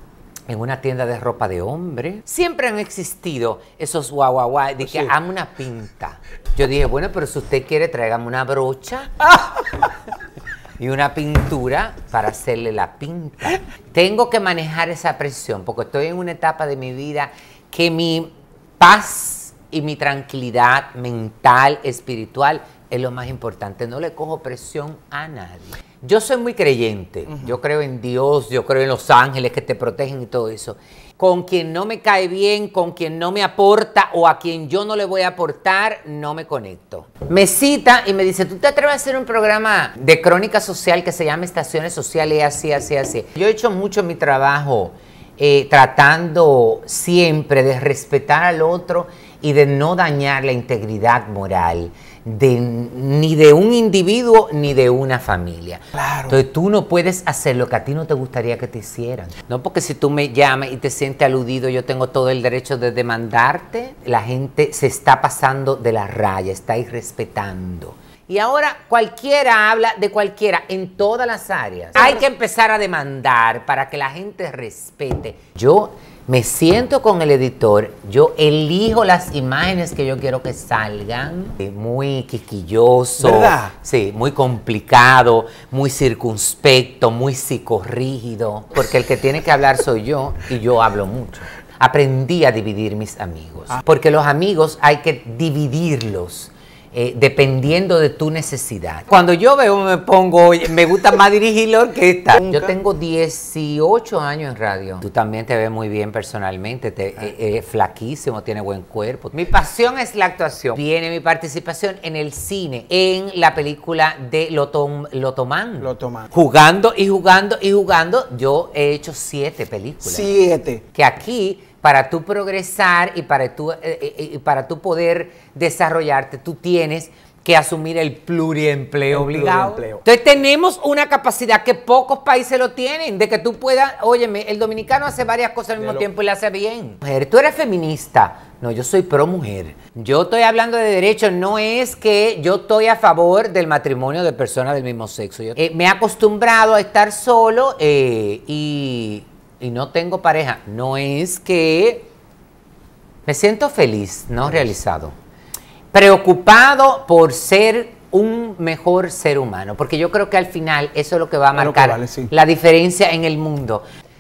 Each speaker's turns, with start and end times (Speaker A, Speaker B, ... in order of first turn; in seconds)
Speaker A: 0.5-9.2, 10.8-120.3, 120.9-152.1, 153.3-155.2, 155.9-163.8
Speaker B: 4.8-5.1, 56.0-56.3, 83.2-83.7, 102.3-102.7, 115.8-116.3, 120.0-120.8, 129.1-130.0, 161.5-162.3